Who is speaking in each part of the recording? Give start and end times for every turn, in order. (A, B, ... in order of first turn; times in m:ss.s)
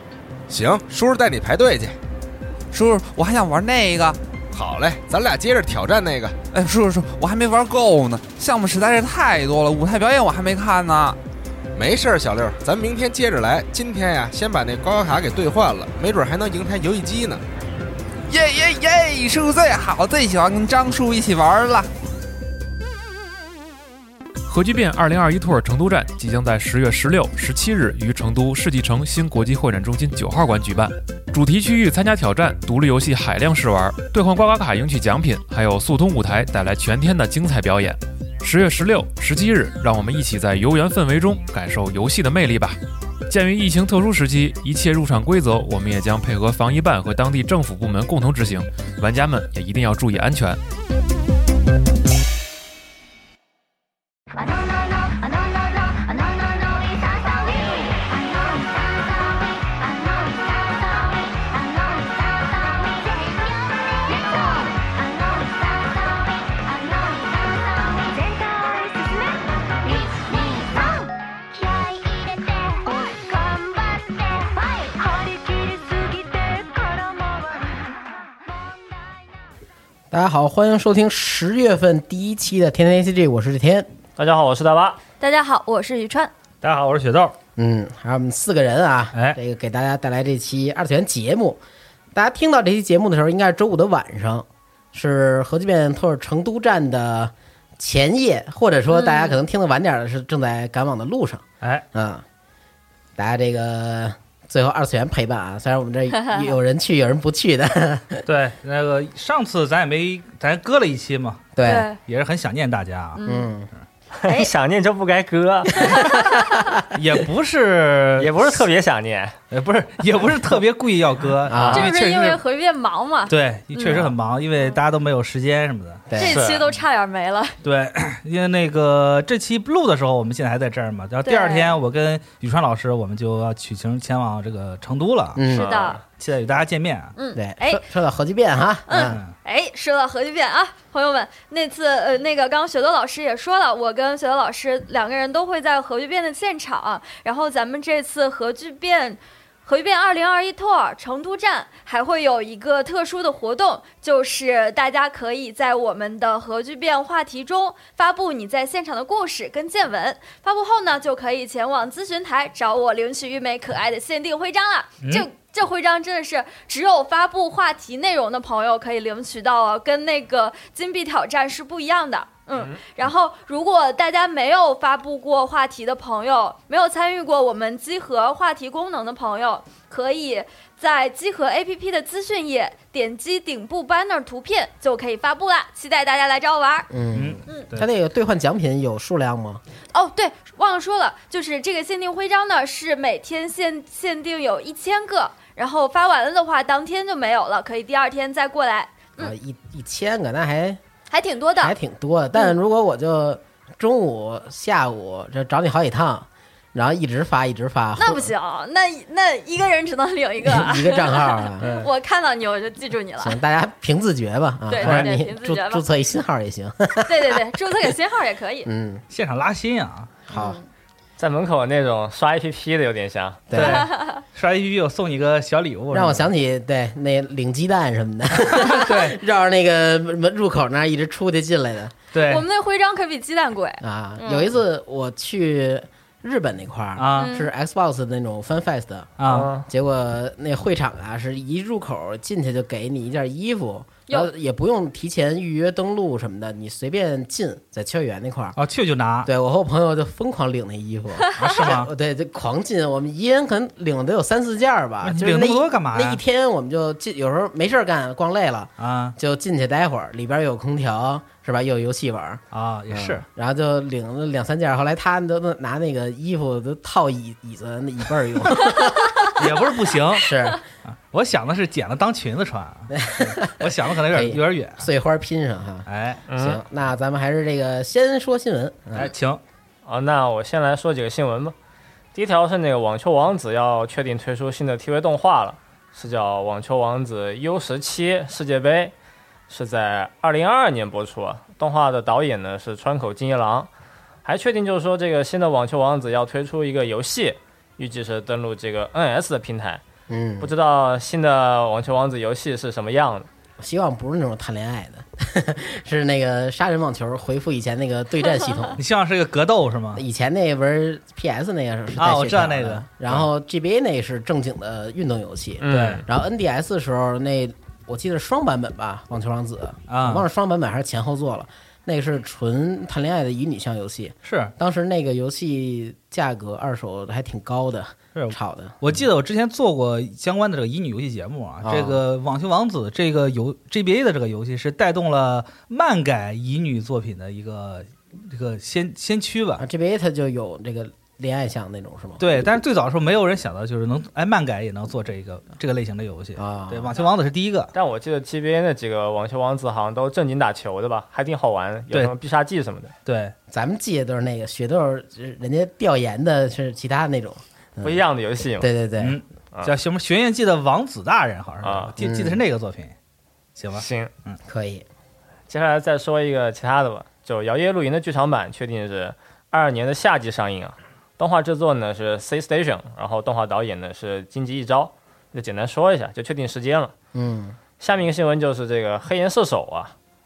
0:00.5-0:02.0 A
0:02.7-0:04.2 B
0:04.5-0:06.4 A
0:06.5-0:11.2 B
0:11.8-0:17.4 A
0:18.3-0:21.9 B
0:24.4-0:50.6 C
0:54.4-1:18.0 D
1:20.1-1:23.9 E
1:24.2-1:25.0 F
1:25.2-1:26.3 G
1:26.6-1:27.4 H
1:27.6-1:31.6 E
1:32.1-1:42.3 E
1:38.9-1:39.4 G
1:43.2-1:48.2 E
1:46.2-1:46.5 G
1:48.3-1:53.2 H
1:51.6-1:51.9 E
1:51.6-1:52.0 G
1:53.2-1:53.5 G
1:53.2-1:53.7 E
1:54.2-1:56.0 F
1:55.8-1:56.5 G
1:56.4-1:56.6 E
1:56.9-1:58.6 H
1:58.2-1:59.4 F
1:59.5-2:02.4 H
2:01.5-2:01.9 E
2:01.5-2:01.8 F
2:01.7-2:04.8 G
2:03.3-2:06.0 H
2:06.1-2:06.4 E
2:06.2-2:07.6 G
2:06.2-2:06.7 F
2:07.6-2:15.5 H
2:11.2-2:11.8 G
2:15.4-2:15.8 E
2:15.5-2:16.0 G
2:15.5-2:16.0 F
2:16.1-2:17.1 H
2:17.2-2:17.8 G
2:17.4-2:19.2 E
2:18.9-3:06.9 G
2:19.1-2:19.3 H
3:06.9-3:09.6 E
3:07.2-3:07.9 H
3:09.9-3:19.3 G
3:19.2-3:20.8 E
3:21.1-3:21.8 G
3:21.6-3:28.3 E
3:28.0-3:33.4 G
3:30.4-3:31.7 E
3:31.6-3:31.9 H
3:33.2-3:37.4 E
3:34.7-3:35.8 G
3:34.8-3:35.1 H
3:37.0-3:38.7 G
3:38.7-3:39.0 E
3:39.1-3:40.3 H
3:40.3-3:40.6 E
3:40.3-3:40.6 G
3:41.2-3:43.5 F
3:43.5-3:43.9 E
3:43.5-3:46.3 H
3:43.6-3:44.2 G
3:45.9-3:52.0 E
3:48.7-3:49.2 H
3:52.1-3:52.4 H
3:52.2-3:54.5 G
3:53.8-3:59.1 E
3:57.0-3:57.3 H
3:57.2-3:57.5 G
3:59.2-3:59.5 H
3:59.3-3:59.6 F
3:59.7-4:08.6 E
4:08.6-4:09.3 H
4:09.2-4:29.4 E
4:11.4-4:11.9 H
4:15.0-4:16.2 H
4:18.8-4:19.2 H
4:22.5-4:23.2 H
4:29.0-4:29.3 G
4:29.4-4:30.3 H
4:30.1-4:30.6 E
4:30.9-4:34.9 H
4:32.9-4:39.1 E
4:35.9-4:36.2 H
4:36.3-4:36.6 F
4:39.0-4:39.4 H
4:39.9-4:41.6 F
4:42.2-4:48.9 F
4:49.5-4:53.7 F
4:54.2-4:59.8 F
5:00.1-5:00.5 E
5:00.4-5:03.3 F
5:03.6-5:08.8 E
5:08.8-5:10.0 H
5:10.0-5:29.0 E
5:12.0-5:13.3 H
5:15.6-5:16.0 F
5:15.7-5:16.0 H
5:19.9-5:20.3 H
5:24.2-5:24.5 H
5:28.2-5:39.6 H
5:31.6-5:32.0 E
5:39.6-5:42.3 E
5:42.2-5:47.7 H
5:46.4-5:47.0 E
5:47.7-5:52.9 F
5:53.1-5:53.3 H
5:53.5-5:58.0 E
5:57.8-5:58.7 F
5:58.6-5:59.2 E
5:59.0-6:03.0 H
6:01.6-6:01.9 F
6:02.0-6:02.4 E
6:03.6-6:04.4 H
6:03.7-6:04.1 F
6:04.4-6:04.9 E
6:05.5-6:16.9 F
6:17.1-6:17.6 E
6:17.8-6:19.9 F